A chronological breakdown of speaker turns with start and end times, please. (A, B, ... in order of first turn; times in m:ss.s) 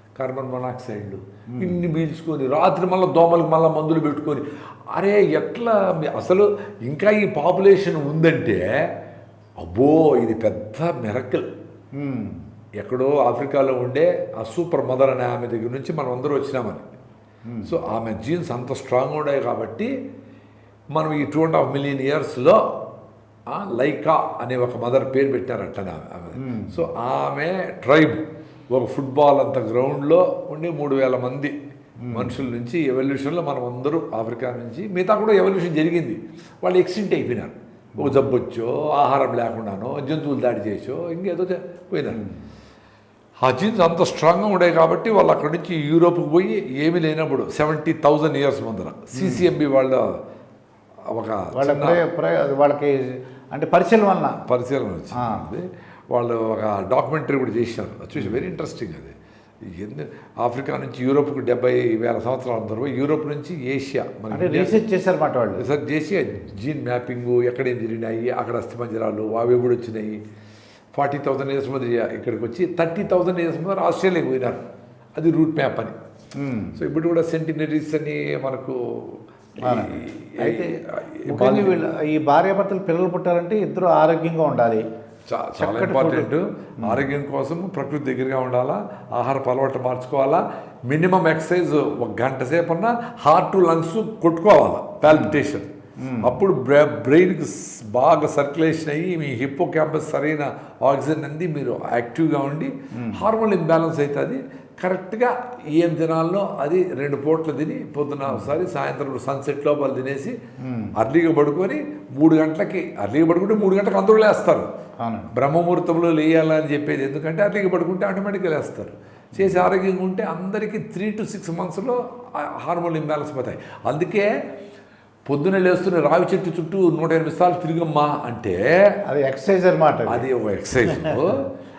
0:00.2-0:08.6 A
0:01.5-0:01.8 B
0:09.6-0:11.5 A
0:12.0-0:12.4 B
0:12.8-0:16.9 A
0:17.5-0:17.7 B
0:17.6-0:19.9 A
0:20.9-0:22.6 A
0:23.5-0:31.6 A
0:26.4-0:26.8 B
0:32.0-0:32.4 B
0:32.1-0:42.2 A
0:42.1-0:42.4 B
0:43.4-0:50.1 A
0:49.2-0:49.5 B
0:51.1-0:52.0 A
0:51.5-0:54.4 B
0:54.5-0:59.1 A
0:55.2-0:55.5 B
0:58.2-0:58.4 B
0:59.7-1:04.7 A
1:04.3-1:05.6 B
1:05.6-1:10.2 A
1:10.9-1:14.6 A
1:15.2-1:15.9 A
1:16.4-1:16.8 B
1:16.8-1:21.8 A
1:19.6-1:20.7 B
1:21.3-1:24.8 B
1:25.3-1:35.7 A
1:25.6-1:26.3 B
1:35.1-1:35.4 B
1:36.0-1:36.4 B
1:36.2-1:50.4 A
1:42.9-1:43.2 B
1:48.2-1:48.5 B
1:50.6-1:50.9 B
1:51.0-1:54.7 A
1:55.0-1:55.3 B
1:55.3-2:04.3 A
1:59.4-1:59.6 B
2:05.3-2:08.7 A
2:09.1-2:10.3 B
2:10.1-2:11.5 A
2:10.9-2:11.3 B